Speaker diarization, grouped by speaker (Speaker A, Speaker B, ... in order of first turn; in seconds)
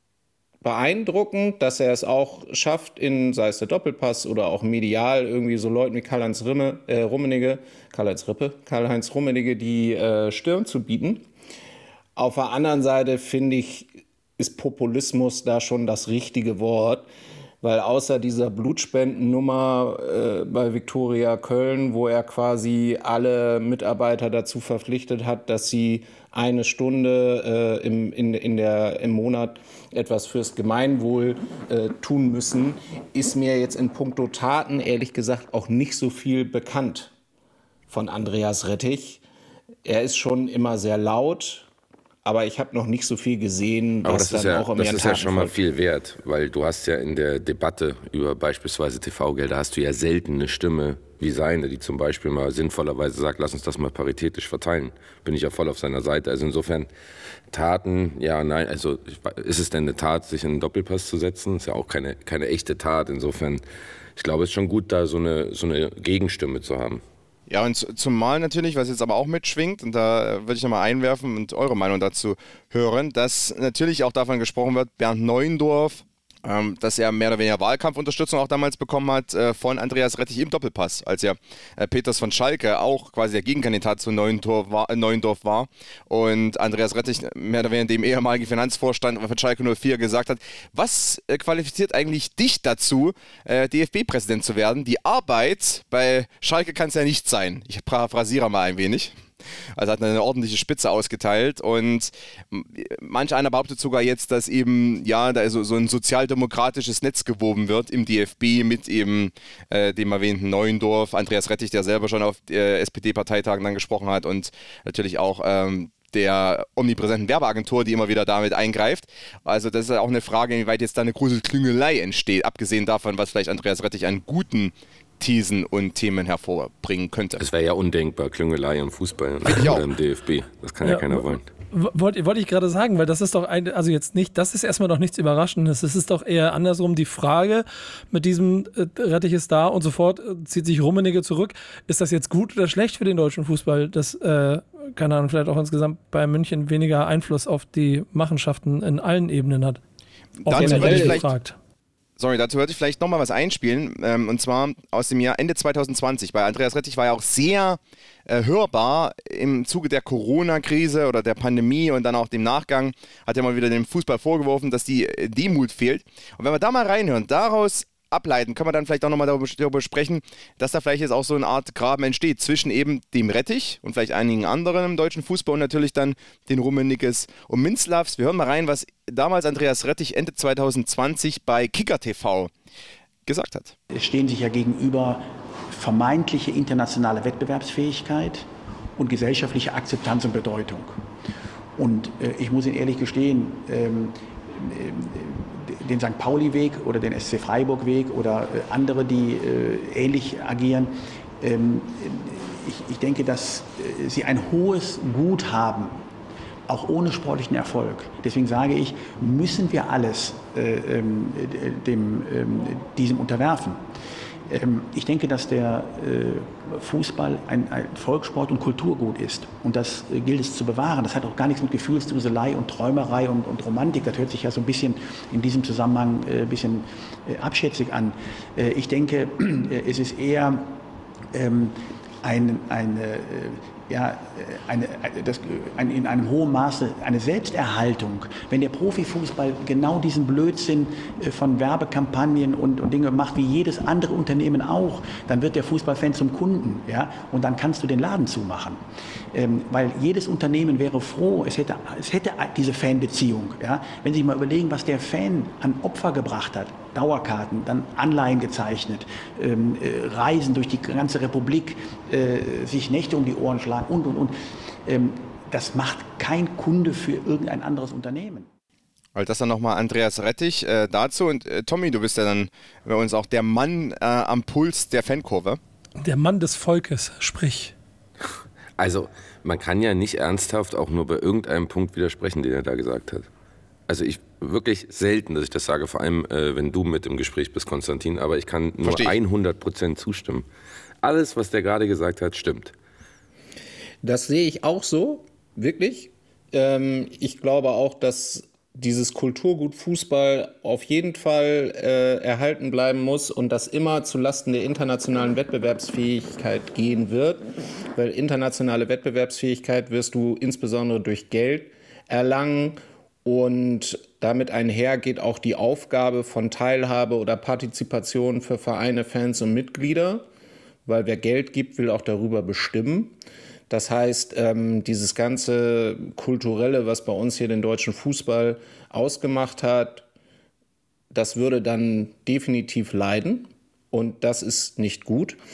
Speaker A: 0.6-11.3, 12.2-17.1, 17.6-37.1, 37.9-39.2, 39.9-41.7, 42.2-45.6, 150.6-151.2, 294.0-307.4, 307.9-320.2, 320.9-323.1, 323.7-330.1, 331.1-335.4
Speaker B: 44.0-56.9, 57.5-63.6, 64.2-67.0, 127.4-131.5, 278.8-283.3, 283.9-290.5, 291.0-292.8
Speaker C: 67.5-99.2, 99.8-127.4, 129.5-129.9, 150.4-151.3, 152.2-182.5, 183.3-183.8, 269.2-275.6, 288.8-289.1
Speaker D: 130.8-149.8, 150.4-151.6, 276.0-277.8
Speaker E: 183.9-191.0, 191.8-206.0, 206.7-213.9, 214.5-230.8, 231.3-268.5